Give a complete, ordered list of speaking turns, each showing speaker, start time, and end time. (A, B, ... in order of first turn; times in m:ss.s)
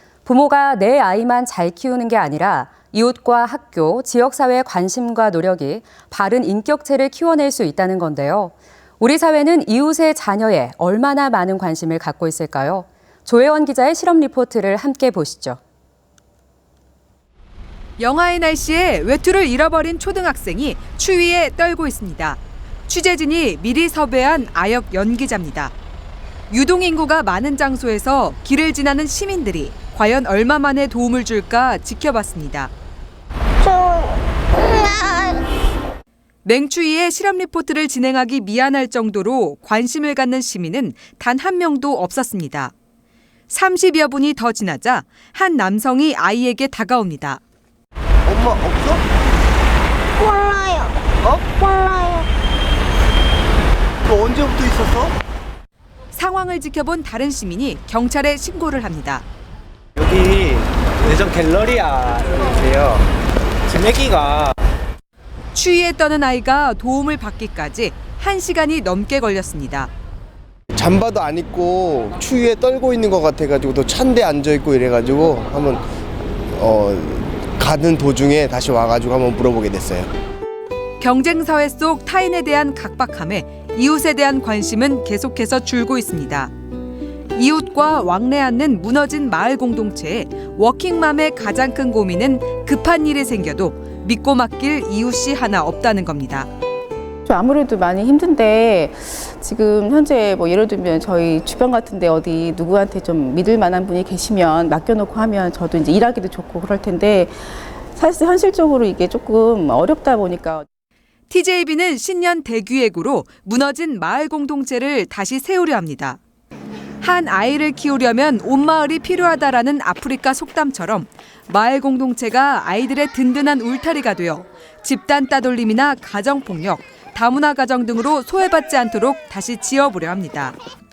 0:00.2-0:15.6 A
0:18.0-0:25.7 B
0:26.5-0:32.7 B
0:33.6-0:35.5 C
0:36.4-0:42.7 B
0:43.5-0:47.4 B
0:48.3-0:49.0 D
0:50.2-0:51.0 C
0:51.2-0:52.2 D
0:54.1-0:55.1 D
0:56.1-0:59.2 B
1:00.0-1:03.1 E
1:03.7-1:04.6 E
1:05.5-1:09.9 B
1:10.7-1:15.8 D
1:16.5-1:20.1 D
1:21.0-1:26.5 B
1:27.3-1:36.5 B
1:37.3-1:50.7 F
1:51.3-1:56.2 B
1:57.0-2:10.6 B